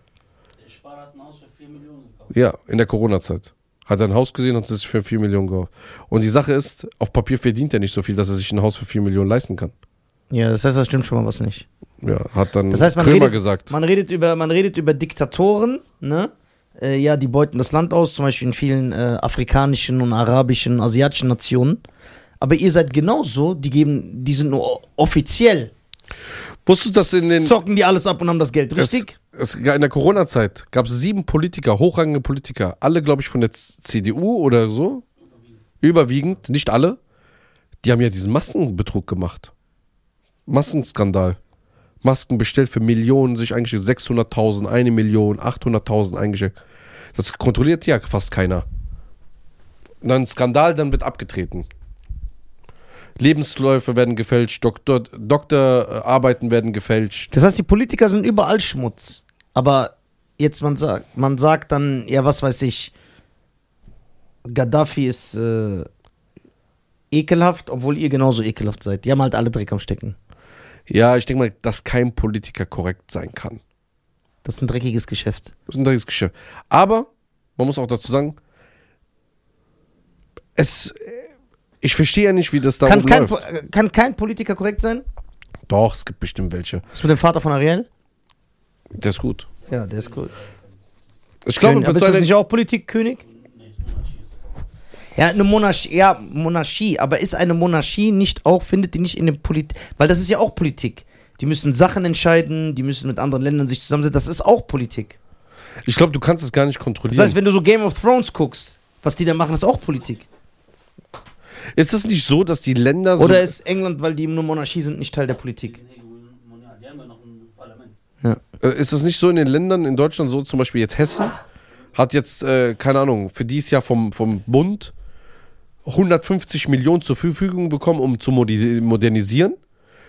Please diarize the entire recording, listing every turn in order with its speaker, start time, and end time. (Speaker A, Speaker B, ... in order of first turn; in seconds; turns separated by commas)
Speaker A: 0.6-2.3, Speaker B: 2.3-9.7, Speaker C: 10.3-11.7, Speaker B: 12.0-13.7, Speaker C: 12.7-21.8, Speaker C: 22.4-25.7, Speaker B: 26.7-27.5, Speaker C: 27.0-29.1, Speaker B: 28.8-35.0, Speaker A: 35.2-35.6, Speaker B: 35.8-37.0, Speaker B: 37.8-39.5, Speaker B: 40.5-41.4, Speaker B: 42.0-46.5, Speaker B: 47.1-48.6, Speaker B: 50.0-51.7, Speaker B: 53.2-57.3, Speaker C: 57.3-62.9, Speaker C: 64.5-65.9, Speaker C: 67.1-70.2, Speaker B: 70.9-73.6, Speaker C: 74.4-75.5, Speaker B: 75.7-78.4, Speaker B: 80.6-81.3, Speaker B: 81.8-83.4, Speaker C: 82.8-85.0, Speaker B: 85.7-86.8, Speaker C: 86.9-87.9, Speaker B: 89.0-89.5, Speaker A: 89.7-90.8, Speaker C: 89.7-90.3, Speaker B: 91.5-92.3, Speaker C: 91.6-93.2, Speaker A: 93.2-94.4, Speaker C: 95.2-105.2, Speaker B: 105.8-107.4, Speaker C: 107.1-110.3, Speaker B: 111.8-113.5, Speaker C: 113.2-115.8, Speaker A: 115.6-118.0, Speaker B: 118.6-121.4, Speaker B: 121.9-124.9, Speaker B: 125.9-129.6